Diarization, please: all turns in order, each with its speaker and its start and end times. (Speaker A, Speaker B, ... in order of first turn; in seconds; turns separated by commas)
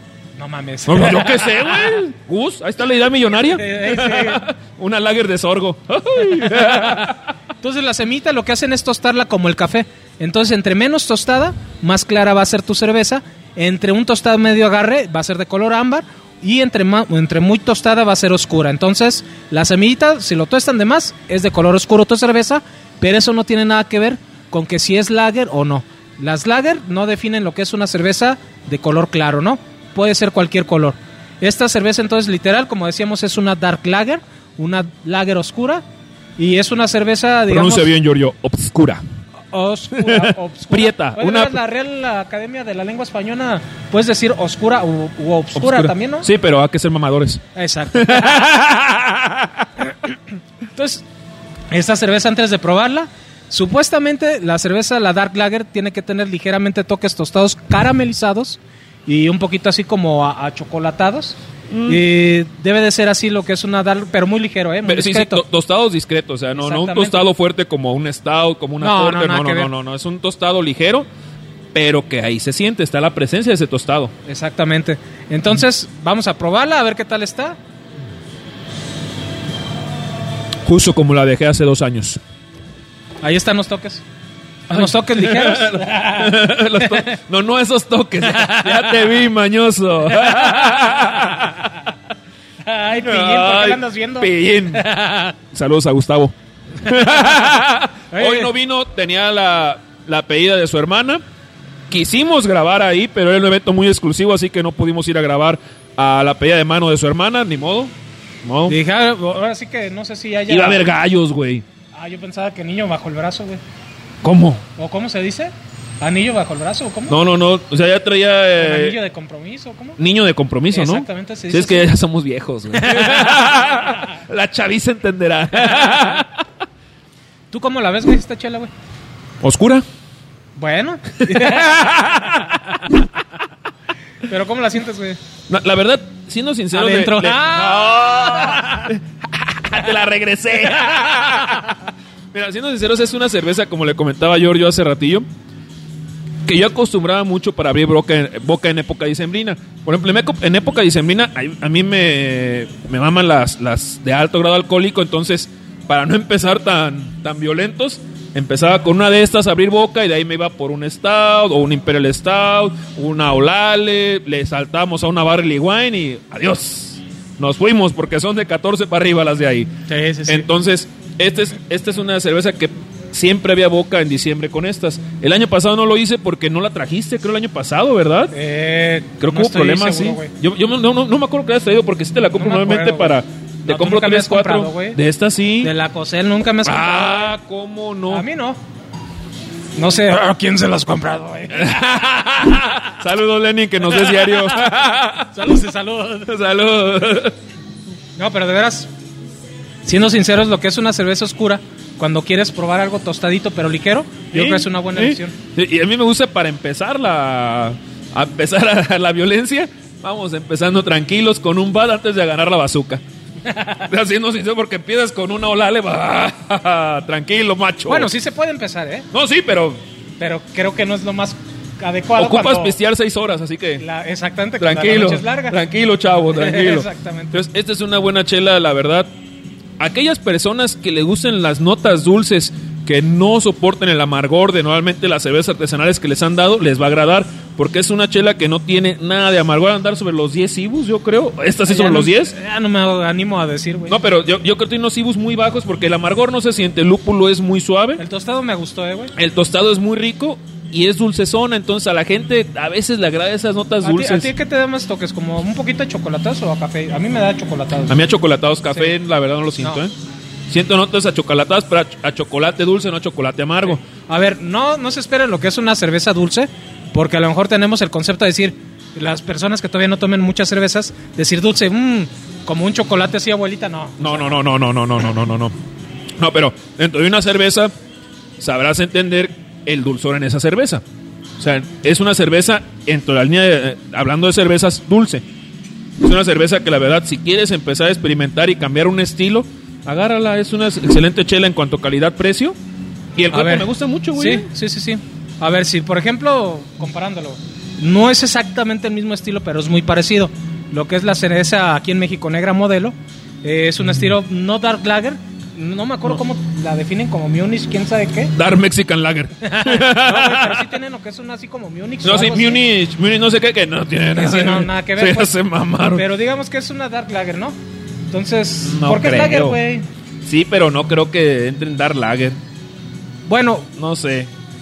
Speaker A: 0.4-1.9, Speaker B: 0.8-7.3, Speaker A: 3.3-4.4, Speaker A: 6.3-7.1, Speaker A: 7.6-35.8, Speaker A: 36.4-37.9, Speaker B: 37.5-39.0, Speaker A: 39.5-46.3, Speaker B: 40.0-41.6, Speaker B: 45.5-47.4, Speaker A: 47.5-48.5, Speaker B: 47.9-49.7, Speaker A: 50.7-51.0, Speaker A: 51.7-65.4, Speaker B: 61.7-62.0, Speaker B: 64.8-71.1, Speaker A: 66.5-67.2, Speaker A: 68.8-69.7, Speaker B: 71.7-74.1, Speaker A: 74.2-77.6, Speaker B: 80.7-82.2, Speaker A: 83.2-84.0, Speaker A: 84.7-87.0, Speaker B: 84.7-91.8, Speaker A: 88.2-89.1, Speaker A: 90.2-91.4, Speaker A: 92.7-95.3, Speaker B: 92.9-94.8, Speaker B: 95.5-101.2, Speaker A: 97.0-97.4, Speaker A: 98.1-98.5, Speaker B: 101.9-108.8, Speaker A: 108.7-110.8, Speaker B: 110.5-111.6, Speaker A: 111.9-113.6, Speaker B: 114.2-114.6, Speaker A: 114.8-117.2, Speaker B: 117.1-119.0, Speaker A: 118.6-120.0, Speaker B: 120.0-126.4, Speaker A: 120.7-121.9, Speaker A: 122.8-123.5, Speaker A: 125.7-126.1, Speaker A: 127.5-128.7, Speaker B: 129.4-129.8, Speaker A: 130.6-132.6, Speaker B: 131.2-132.6, Speaker A: 134.2-135.2, Speaker B: 135.5-145.2, Speaker A: 136.7-138.9, Speaker B: 146.4-169.7, Speaker A: 169.9-170.5, Speaker B: 170.3-178.3, Speaker A: 178.3-180.3, Speaker B: 179.2-185.7, Speaker A: 182.3-185.0, Speaker A: 185.6-187.4, Speaker B: 186.6-188.2, Speaker A: 188.1-188.6, Speaker A: 189.8-191.9, Speaker B: 191.5-195.4, Speaker A: 193.9-194.4, Speaker A: 195.3-196.3, Speaker B: 196.2-197.3, Speaker A: 198.2-198.9, Speaker A: 199.8-205.3, Speaker B: 204.3-213.0, Speaker A: 213.5-213.8, Speaker B: 213.8-218.1, Speaker A: 217.9-219.1, Speaker B: 219.1-219.8, Speaker A: 220.2-222.8, Speaker B: 222.2-223.8, Speaker A: 223.8-225.6, Speaker B: 224.6-229.1, Speaker A: 226.3-227.4, Speaker B: 229.8-242.3, Speaker A: 241.7-244.0, Speaker B: 243.9-248.0, Speaker A: 248.0-249.1, Speaker B: 249.1-254.3, Speaker A: 253.8-258.0, Speaker B: 257.9-259.9, Speaker B: 260.5-263.8, Speaker A: 263.7-274.3, Speaker B: 274.0-275.5, Speaker B: 276.2-277.7, Speaker B: 278.4-280.8, Speaker B: 281.4-285.2, Speaker B: 286.0-292.5, Speaker B: 293.1-294.5, Speaker A: 293.3-308.3, Speaker B: 308.3-310.7, Speaker A: 309.4-312.6, Speaker B: 312.0-316.0, Speaker A: 314.1-315.4, Speaker A: 315.9-317.6, Speaker A: 318.1-319.9, Speaker B: 318.6-319.6, Speaker B: 320.2-322.4, Speaker A: 323.2-323.7, Speaker B: 323.7-324.3